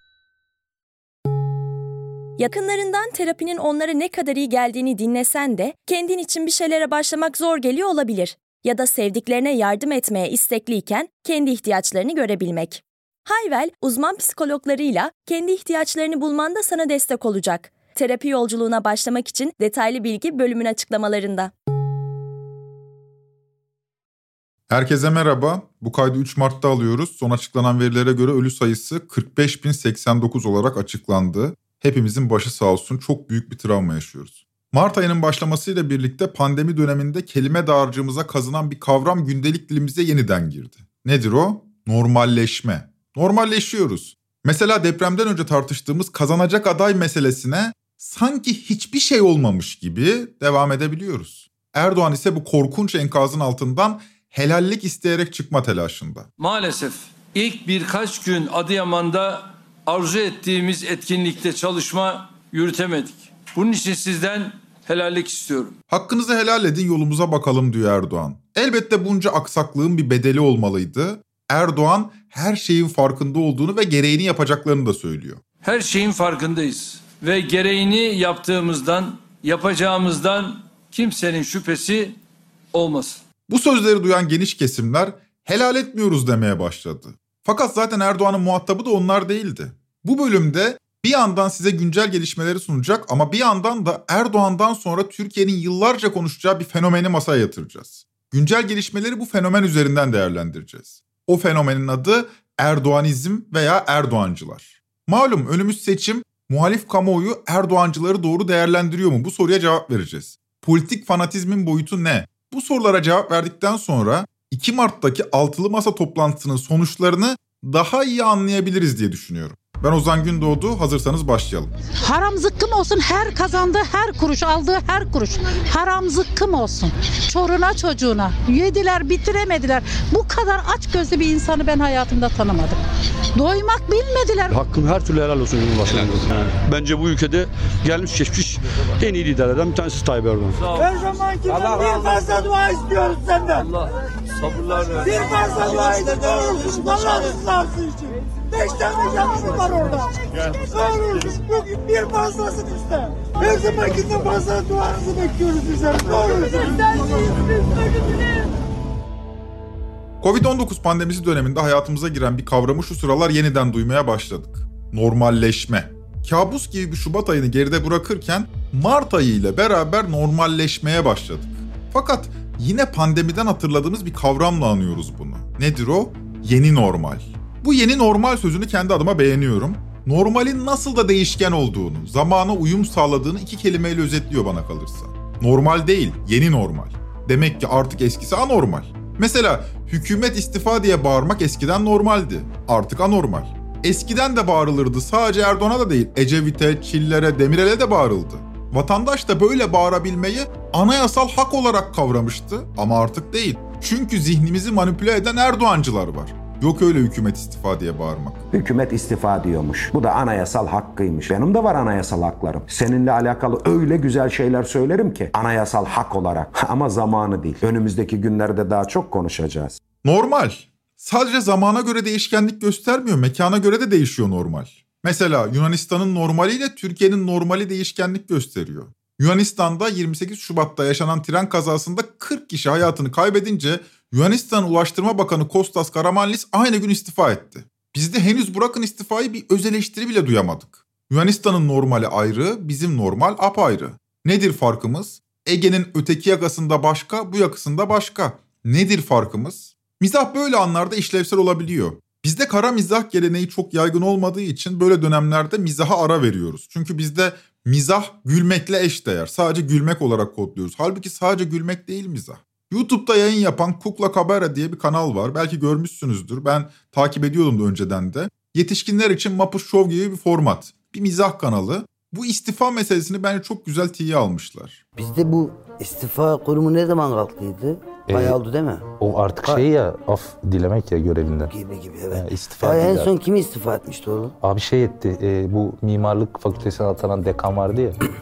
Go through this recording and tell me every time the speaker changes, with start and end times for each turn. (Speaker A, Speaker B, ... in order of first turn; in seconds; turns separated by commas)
Speaker A: 2.4-21.5, Speaker B: 24.7-56.3, Speaker C: 56.4-65.7, Speaker B: 65.9-75.4, Speaker C: 75.6-82.2, Speaker C: 82.7-83.2, Speaker B: 83.5-121.7, Speaker D: 122.0-132.8, Speaker D: 133.3-134.6, Speaker E: 134.5-140.6, Speaker C: 135.9-136.2, Speaker C: 140.6-140.9, Speaker F: 140.7-143.7, Speaker C: 144.4-145.1, Speaker F: 145.0-158.5, Speaker B: 160.2-208.4, Speaker G: 208.5-219.8, Speaker B: 220.0-274.8, Speaker H: 275.0-279.7, Speaker I: 278.1-278.4, Speaker I: 279.0-281.5, Speaker H: 281.5-284.3, Speaker I: 282.1-283.2, Speaker I: 284.4-288.0